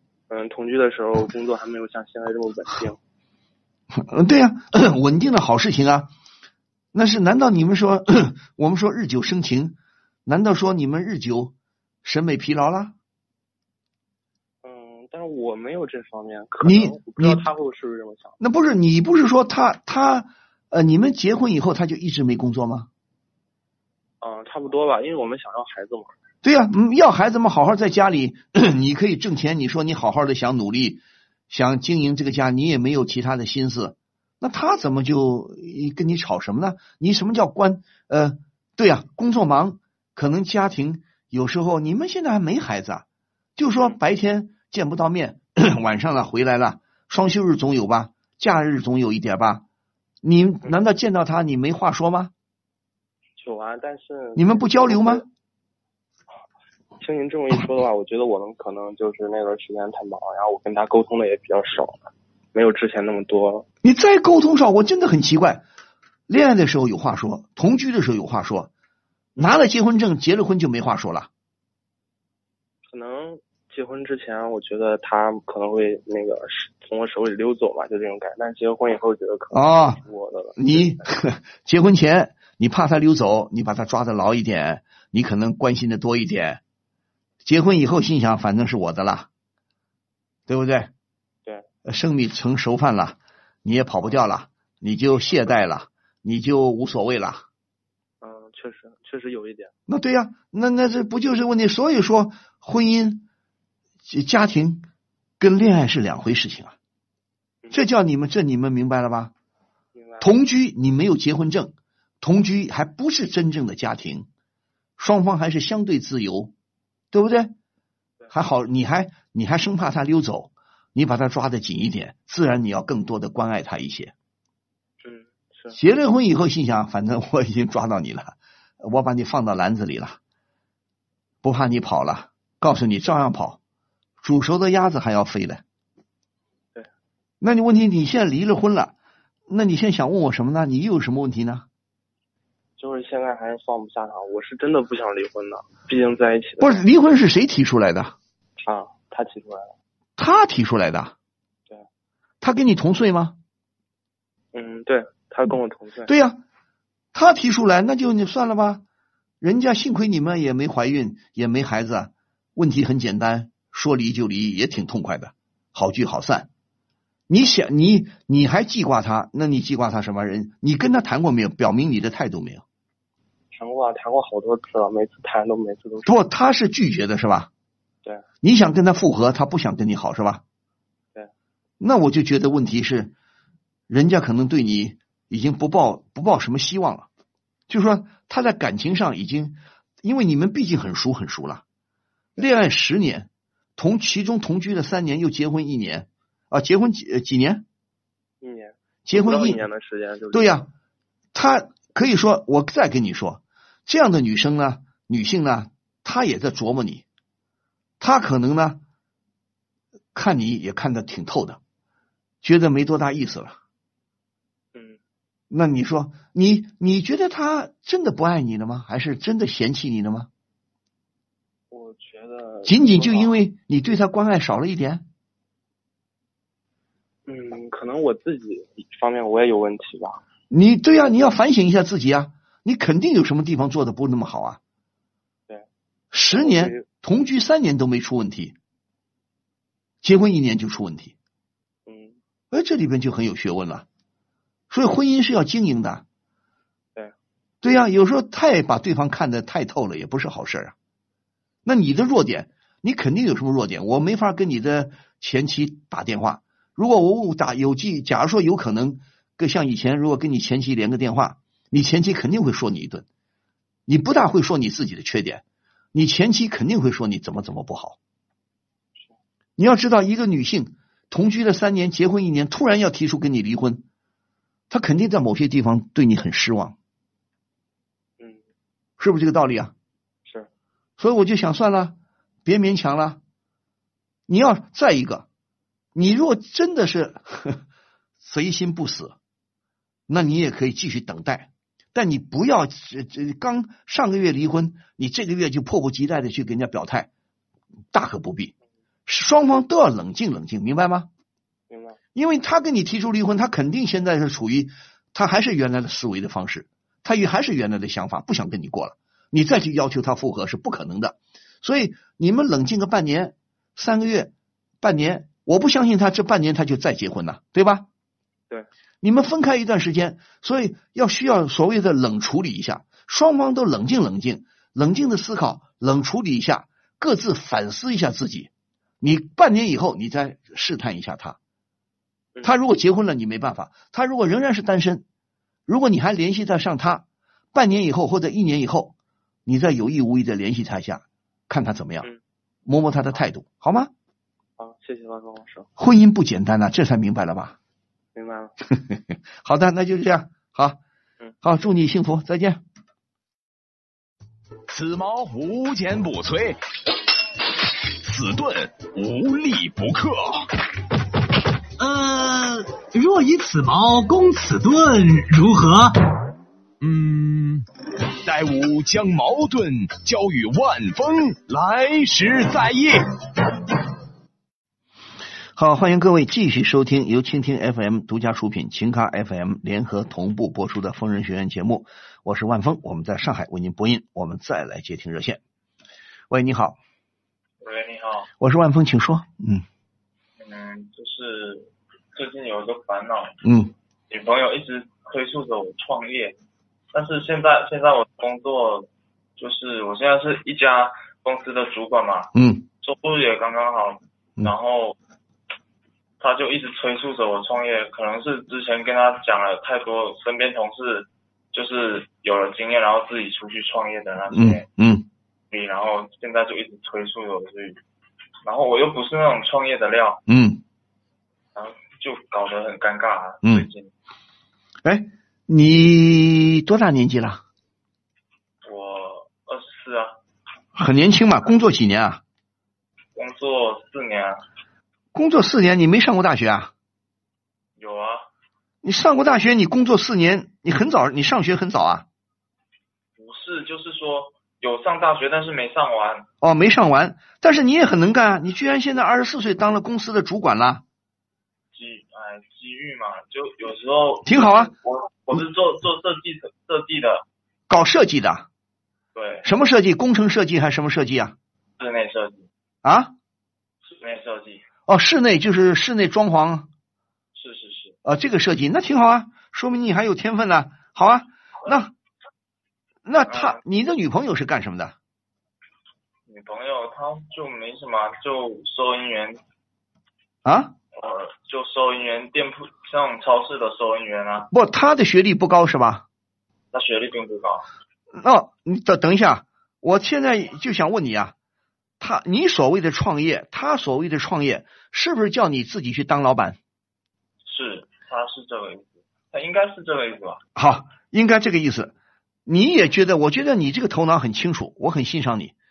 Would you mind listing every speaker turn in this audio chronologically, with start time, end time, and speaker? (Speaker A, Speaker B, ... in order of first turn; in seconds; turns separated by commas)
Speaker A: 0.3-3.0, Speaker B: 3.9-6.1, Speaker B: 6.9-12.9, Speaker A: 14.6-18.4, Speaker B: 16.6-17.5, Speaker B: 18.4-22.9, Speaker A: 24.2-26.1, Speaker B: 26.4-43.0, Speaker B: 43.6-49.6, Speaker B: 50.2-52.3, Speaker A: 53.4-55.2, Speaker B: 54.4-55.2, Speaker A: 57.0-63.6, Speaker B: 63.8-65.6, Speaker B: 66.3-68.7, Speaker B: 69.4-71.3, Speaker A: 72.9-81.0, Speaker B: 79.5-80.0, Speaker B: 80.5-86.6, Speaker B: 87.4-89.3, Speaker B: 90.5-90.9, Speaker B: 91.8-97.4, Speaker A: 98.2-99.7, Speaker B: 99.9-103.2, Speaker B: 104.1-104.8, Speaker B: 105.4-106.7, Speaker B: 107.7-109.3, Speaker A: 109.9-110.3, Speaker B: 110.2-114.3, Speaker B: 115.0-116.5, Speaker B: 117.1-117.5, Speaker B: 118.3-124.1, Speaker A: 125.0-125.8, Speaker B: 125.7-130.2, Speaker B: 131.4-133.6, Speaker B: 134.2-135.6, Speaker B: 137.4-138.9, Speaker B: 139.5-141.7, Speaker A: 142.8-146.8, Speaker B: 146.6-148.1, Speaker A: 148.6-149.7, Speaker B: 150.2-151.1, Speaker B: 152.4-153.4, Speaker A: 154.5-156.1, Speaker B: 156.1-156.4, Speaker B: 157.1-158.8, Speaker B: 159.4-166.5, Speaker B: 167.3-172.6, Speaker A: 173.5-176.1, Speaker B: 176.0-177.5, Speaker B: 178.4-180.4, Speaker B: 181.8-183.1, Speaker B: 183.9-187.1, Speaker B: 187.7-191.6, Speaker B: 192.4-197.6, Speaker A: 198.4-200.6, Speaker B: 199.1-199.6, Speaker B: 200.3-200.7, Speaker B: 201.3-207.0, Speaker B: 208.0-208.8, Speaker B: 210.1-211.6, Speaker B: 212.4-213.6, Speaker A: 214.7-215.0, Speaker B: 215.5-220.3, Speaker A: 221.7-223.4, Speaker B: 222.7-225.0, Speaker A: 227.3-230.2, Speaker B: 230.5-234.6, Speaker B: 236.1-238.6, Speaker A: 236.3-236.9, Speaker B: 240.0-241.1, Speaker A: 241.9-242.2, Speaker B: 242.5-243.8, Speaker B: 244.7-246.0, Speaker B: 247.6-250.7, Speaker B: 251.6-263.1, Speaker B: 263.9-265.4, Speaker B: 265.9-268.0, Speaker B: 269.6-273.8, Speaker B: 274.7-276.8, Speaker B: 279.0-279.7, Speaker A: 280.2-280.5, Speaker B: 281.0-283.2, Speaker B: 284.3-285.2, Speaker B: 285.9-287.6, Speaker B: 288.2-289.1, Speaker B: 290.1-297.1, Speaker B: 297.9-298.5, Speaker B: 299.1-301.1, Speaker A: 301.7-302.0, Speaker B: 302.1-317.9, Speaker B: 319.0-328.5, Speaker B: 329.0-331.4, Speaker B: 332.4-335.0, Speaker B: 335.7-338.9, Speaker B: 339.4-342.1, Speaker B: 342.6-343.9, Speaker A: 344.6-345.7, Speaker B: 345.8-347.6, Speaker A: 348.1-348.5, Speaker B: 348.8-350.8, Speaker B: 351.4-352.6, Speaker C: 354.7-356.6, Speaker C: 358.0-360.4, Speaker D: 361.8-365.9, Speaker C: 366.8-367.6, Speaker C: 368.2-373.0, Speaker B: 375.6-385.4, Speaker B: 386.3-386.8, Speaker E: 387.6-388.3, Speaker B: 388.4-389.6, Speaker E: 390.4-393.4, Speaker B: 393.4-393.7, Speaker E: 394.1-396.4, Speaker E: 396.9-402.3, Speaker B: 402.3-402.6, Speaker E: 402.8-404.9, Speaker E: 406.2-414.6, Speaker B: 414.3-415.1, Speaker E: 415.5-417.8, Speaker E: 418.4-420.2, Speaker B: 420.3-420.6, Speaker E: 421.5-423.9, Speaker B: 424.8-427.4, Speaker E: 428.6-430.1, Speaker B: 430.8-432.2, Speaker E: 433.1-434.4, Speaker B: 435.1-436.7, Speaker E: 437.8-438.2, Speaker B: 438.8-442.1, Speaker E: 443.1-446.2, Speaker B: 446.4-450.8, Speaker E: 451.7-457.2, Speaker B: 454.2-454.7, Speaker B: 457.7-458.5, Speaker E: 459.1-459.5, Speaker B: 459.4-461.4, Speaker E: 461.8-462.5, Speaker B: 462.8-463.1, Speaker E: 463.8-464.6, Speaker B: 464.9-466.7, Speaker E: 467.3-467.9, Speaker B: 468.0-471.9, Speaker B: 473.1-474.9, Speaker E: 473.2-473.6, Speaker E: 476.2-479.4, Speaker B: 480.4-480.7, Speaker E: 480.9-484.5, Speaker B: 484.5-486.0, Speaker E: 486.7-487.7, Speaker B: 488.1-491.3, Speaker B: 492.0-496.6, Speaker E: 497.4-500.4, Speaker B: 500.5-501.9, Speaker B: 502.4-505.5